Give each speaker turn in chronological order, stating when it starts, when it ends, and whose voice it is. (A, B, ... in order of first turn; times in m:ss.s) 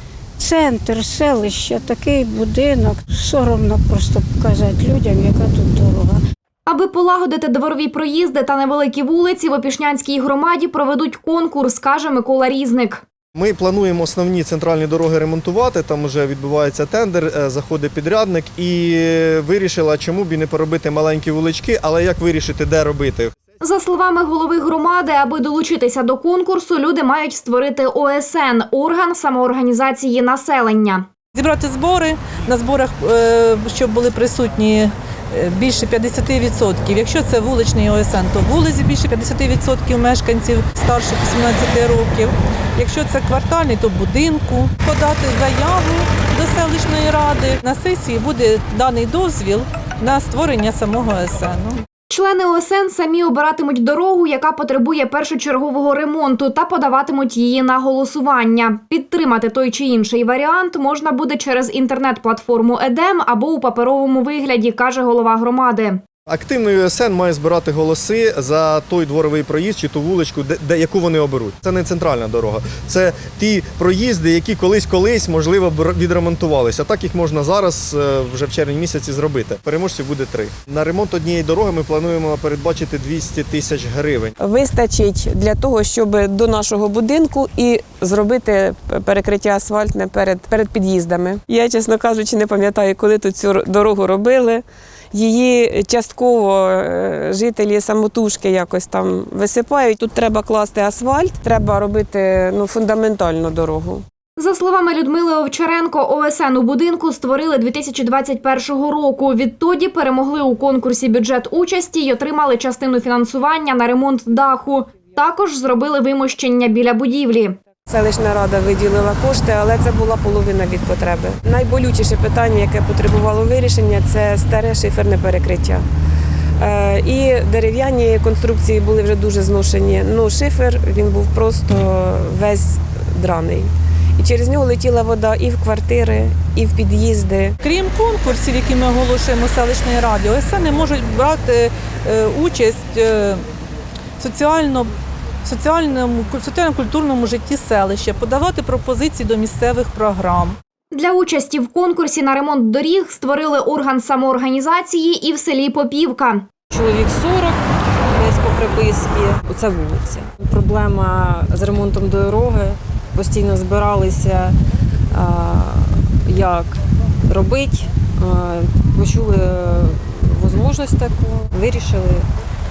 0:00.4-0:06.2 A
0:06.7-0:13.0 B
0:13.4-0:23.3 C
0:23.6-0:31.1 B
0:31.3-0:51.8 D
0:52.1-1:06.0 B
1:06.3-1:24.3 C
1:24.4-1:44.0 E
1:44.4-1:57.6 B
1:57.9-2:05.8 E
2:06.6-2:17.6 E
2:17.6-2:23.4 D
2:24.2-2:24.9 D
2:25.4-2:30.6 D
2:30.9-2:36.5 B
2:36.7-2:44.6 F
2:45.1-2:52.3 F